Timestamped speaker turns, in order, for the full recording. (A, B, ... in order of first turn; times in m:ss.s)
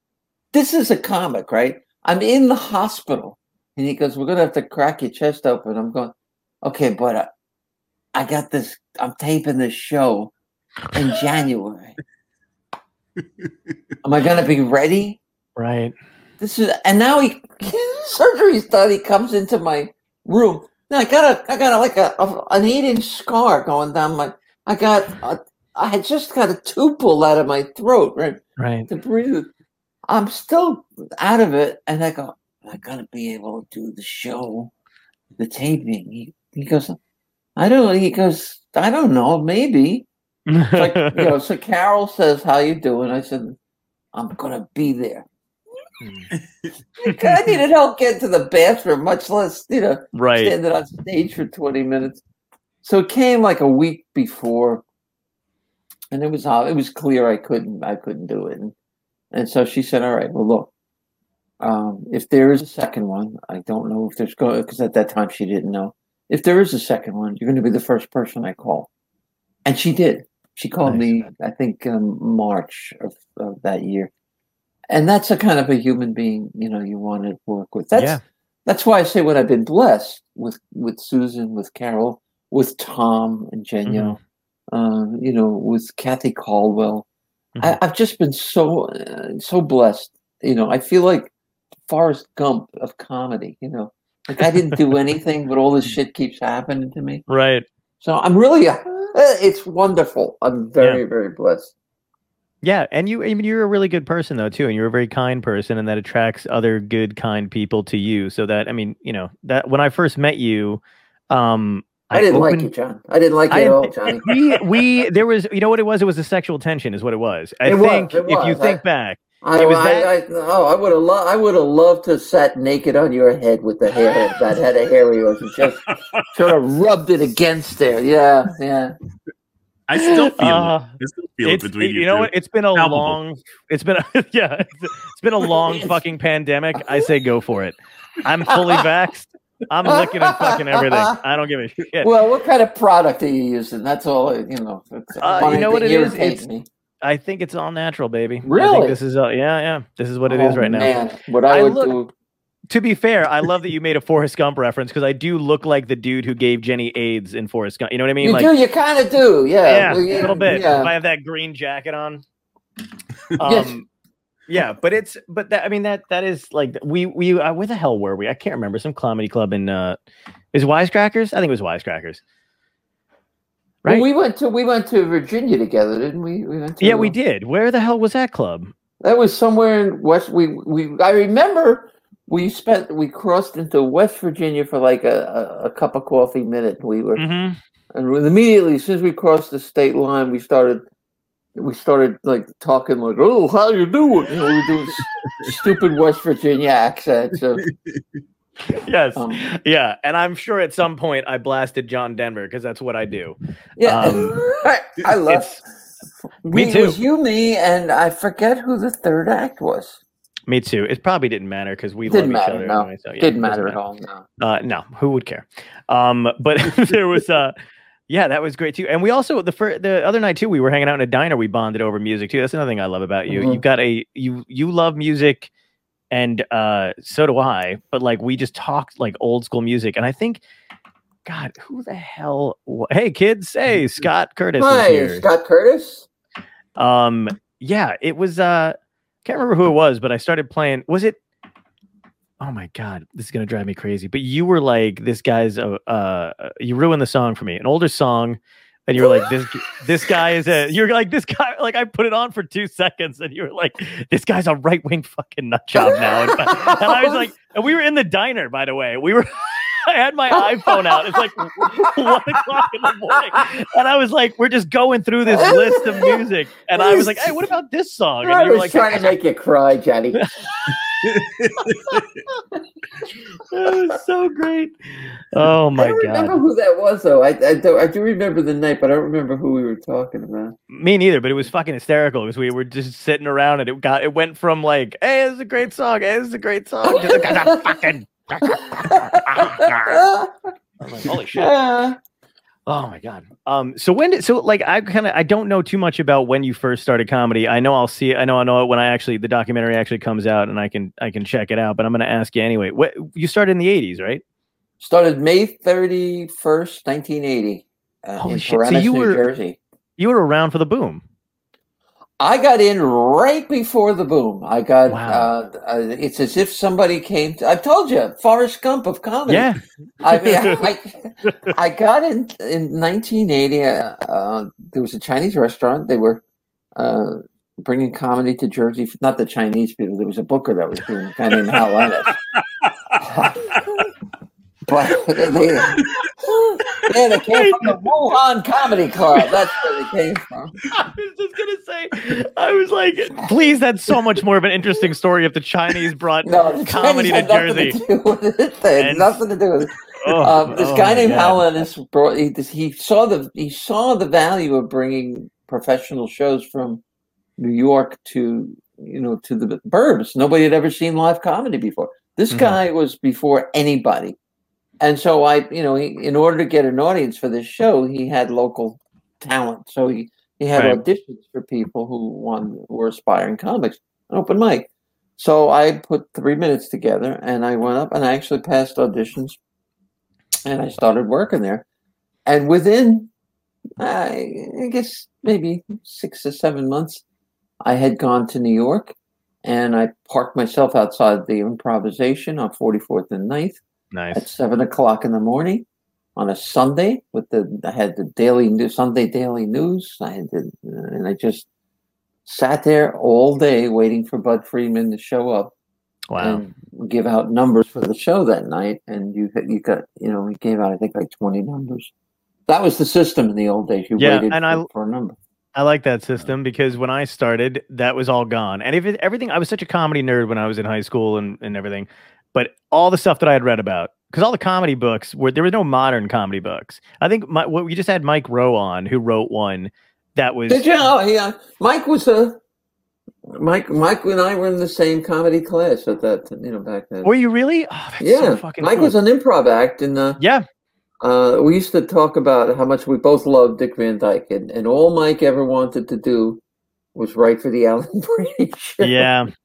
0:00.5-0:07.3 A
0:08.1-0:10.3 A
0:10.9-0:11.9 A
0:14.0-0:15.2 A
0:15.6-0:15.9 B
0:16.4-0:29.5 A
0:28.6-0:28.9 B
0:30.1-0:34.7 A
0:35.4-0:37.0 A
0:37.6-0:40.1 A
0:40.5-0:41.3 B
0:40.7-0:43.6 A
0:44.1-0:45.3 A
0:46.0-0:46.3 B
0:47.0-0:52.2 A
0:50.1-0:50.5 B
0:52.8-0:54.8 A
0:56.1-0:58.7 A
0:59.3-1:00.7 A
1:01.6-1:08.9 A
1:09.6-1:14.1 A
1:10.8-1:11.3 B
1:14.9-1:24.2 A
1:17.9-1:18.2 B
1:23.9-1:24.2 B
1:24.7-1:27.0 A
1:27.6-1:31.3 A
1:31.9-1:37.2 A
1:37.3-1:37.6 B
1:38.0-1:41.7 A
1:42.6-1:52.7 B
1:52.1-1:54.3 A
1:53.5-2:00.1 B
1:57.6-1:58.8 A
1:59.4-2:09.0 A
2:09.9-2:13.2 C
2:10.0-2:10.9 B
2:11.4-2:22.1 B
2:19.8-2:21.2 A
2:22.0-2:26.6 A
2:25.2-2:26.4 B
2:27.0-2:30.9 B
2:28.4-2:29.0 A
2:30.3-2:32.1 A
2:31.5-2:32.0 B
2:32.7-2:38.5 B
2:38.2-2:40.9 A
2:39.6-2:42.2 B
2:43.4-2:43.9 B
2:43.4-2:43.8 A
2:44.5-2:50.0 B
2:50.5-2:52.2 B
2:53.8-2:57.1 A
2:56.8-2:58.7 B
2:59.0-3:07.2 A
3:07.2-3:07.6 B
3:07.9-3:10.8 A
3:11.6-3:17.6 A
3:18.7-3:24.4 B
3:19.1-3:19.5 A
3:23.8-3:25.6 A
3:25.3-3:25.6 B
3:26.4-3:30.0 A
3:26.5-3:27.0 B
3:30.5-3:33.8 B
3:32.0-3:34.2 A
3:34.4-3:37.5 B
3:38.1-3:45.5 B
3:43.3-3:43.6 A
3:46.1-3:50.4 B
3:51.2-3:55.2 B
3:54.6-3:56.1 A
3:56.8-4:01.2 B
4:02.4-4:29.1 B
4:09.0-4:09.3 A
4:15.8-4:17.3 A
4:20.3-4:22.2 A
4:25.3-4:26.2 A
4:26.7-4:27.3 A
4:28.2-4:30.3 A
4:31.0-4:32.0 C
4:33.5-4:34.7 B
4:35.3-4:36.4 B
4:35.8-4:40.6 A
4:40.7-4:50.0 B
4:46.8-4:47.8 A
4:48.4-4:50.3 A
4:50.8-4:51.5 B
4:51.3-4:52.0 A
4:52.7-5:04.2 B
5:04.8-5:09.6 A
5:08.2-5:09.2 B
5:10.0-5:11.0 B
5:12.2-5:19.5 A
5:14.9-5:15.3 B
5:19.3-5:20.6 B
5:20.0-5:26.2 A
5:26.8-5:32.2 A
5:33.0-5:33.9 A
5:34.6-5:40.5 A
5:37.3-5:37.7 B
5:40.7-5:47.8 B
5:46.2-5:56.8 A
5:48.8-5:49.2 B
5:50.0-5:51.4 B
5:57.4-6:04.2 A
6:02.3-6:02.6 B
6:04.8-6:19.4 A
6:10.5-6:10.8 B
6:20.4-6:21.6 A
6:22.2-6:23.1 A
6:23.8-6:27.0 A
6:27.6-6:33.6 A
6:33.9-6:34.3 B
6:34.1-6:41.4 A
6:42.2-6:45.5 A
6:46.1-6:46.5 B
6:46.2-6:51.9 A
6:52.5-6:55.2 A
6:54.0-6:54.7 B
6:55.5-7:10.7 B
7:10.5-7:12.4 A
7:13.3-7:17.1 A
7:17.0-7:19.0 B
7:18.0-7:20.2 A
7:20.2-7:20.4 B
7:21.0-7:26.4 A
7:26.9-7:29.1 A
7:28.8-7:29.3 B